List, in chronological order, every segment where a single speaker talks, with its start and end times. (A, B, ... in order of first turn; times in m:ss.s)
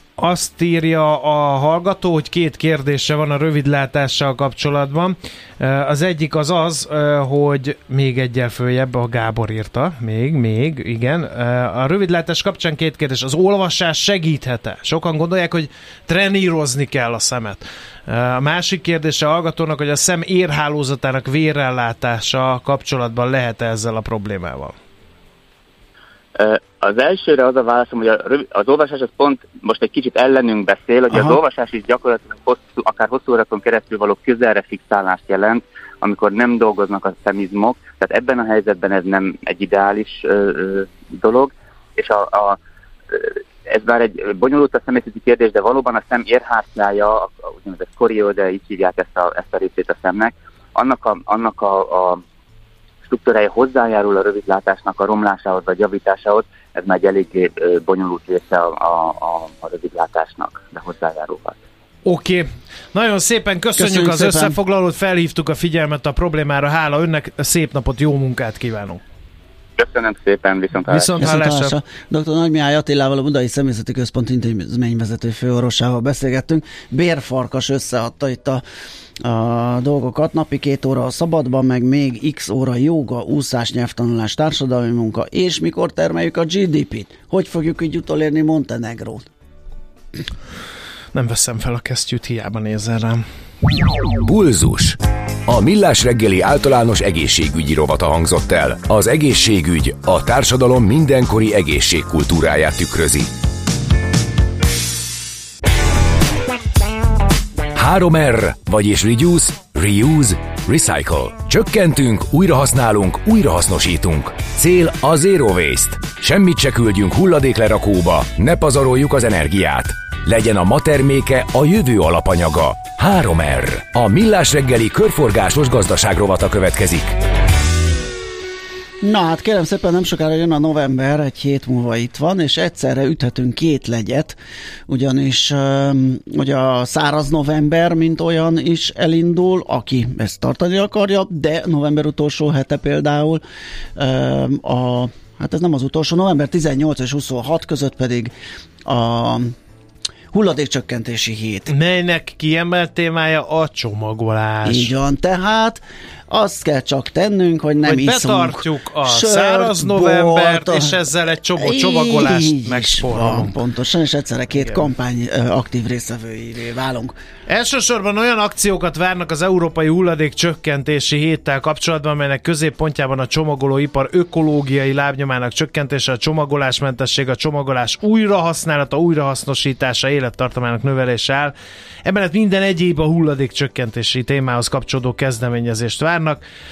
0:00.2-0:24.7 A
0:26.4-0:42.6 B
0:31.1-0:31.4 C
0:43.1-0:52.2 B
0:53.1-1:01.5 B
1:02.0-1:09.0 A
1:03.8-1:04.6 C
1:09.8-1:11.2 B
1:10.8-1:11.8 A
1:11.1-1:18.6 C
1:19.2-1:29.2 C
1:31.1-1:33.2 A
1:34.2-1:43.3 D
1:47.7-2:07.2 D
2:09.0-2:14.4 C
2:14.9-2:23.4 C
2:24.0-2:28.3 C
2:28.8-2:29.5 C
2:30.3-2:31.7 C
2:31.7-2:34.9 A
2:34.6-2:41.0 C
2:37.8-2:43.5 A
2:41.5-2:47.1 C
2:44.5-2:44.8 A
2:47.5-3:01.5 A
3:02.0-3:06.4 A